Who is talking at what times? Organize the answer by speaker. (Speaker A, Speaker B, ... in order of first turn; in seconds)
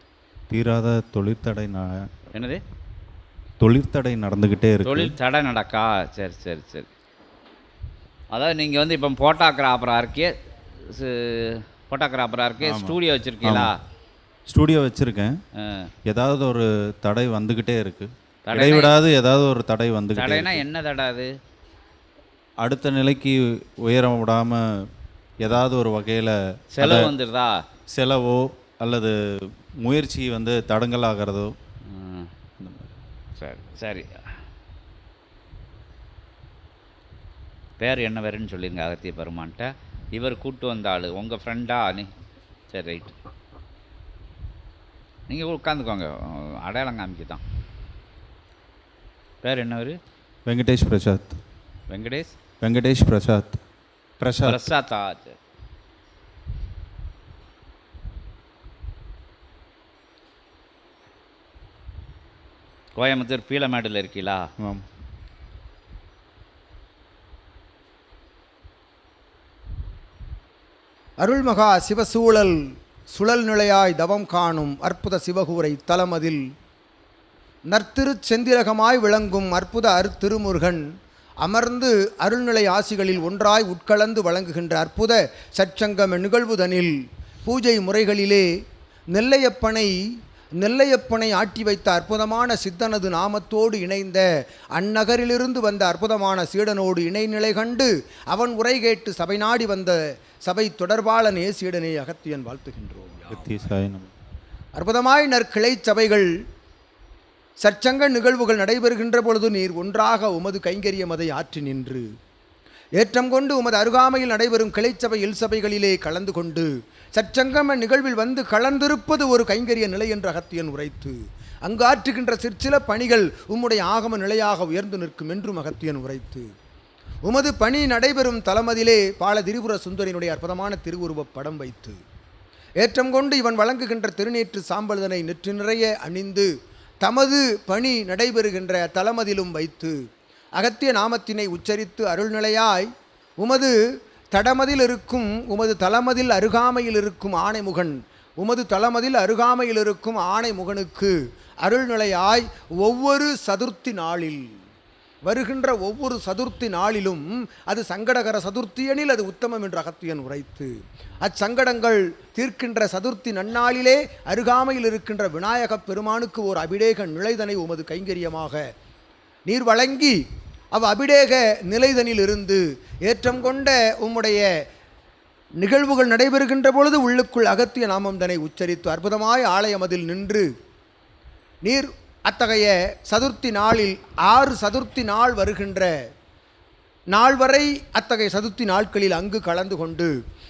Speaker A: 0.5-2.0, 3.6-5.1, 12.6-13.7, 14.5-15.3, 16.1-20.6, 22.6-24.6, 25.4-27.1, 27.9-29.1, 29.8-31.5, 32.6-32.9, 50.5-51.4, 52.6-53.6, 54.2-54.6, 103.3-104.1
Speaker B: 2.3-2.6, 4.8-6.9, 8.3-13.8, 15.6-15.9, 18.5-18.9, 20.1-21.3, 26.8-27.6, 31.9-32.3, 33.4-34.2, 37.8-42.1, 42.7-43.1, 45.3-47.4, 49.4-50.0, 51.9-52.4, 54.4-55.4, 63.0-64.5
Speaker C: 71.2-76.4, 77.7-80.8, 81.4-88.5, 89.1-90.0, 90.6-94.2, 94.8-103.4, 104.8-106.3, 107.6-112.0, 113.0-126.5, 127.2-132.0, 132.8-136.5, 137.0-139.9, 140.6-143.7, 144.3-154.4, 155.3-168.6, 169.5-170.2, 170.7-174.4, 175.6-180.5, 181.6-185.9, 187.1-190.1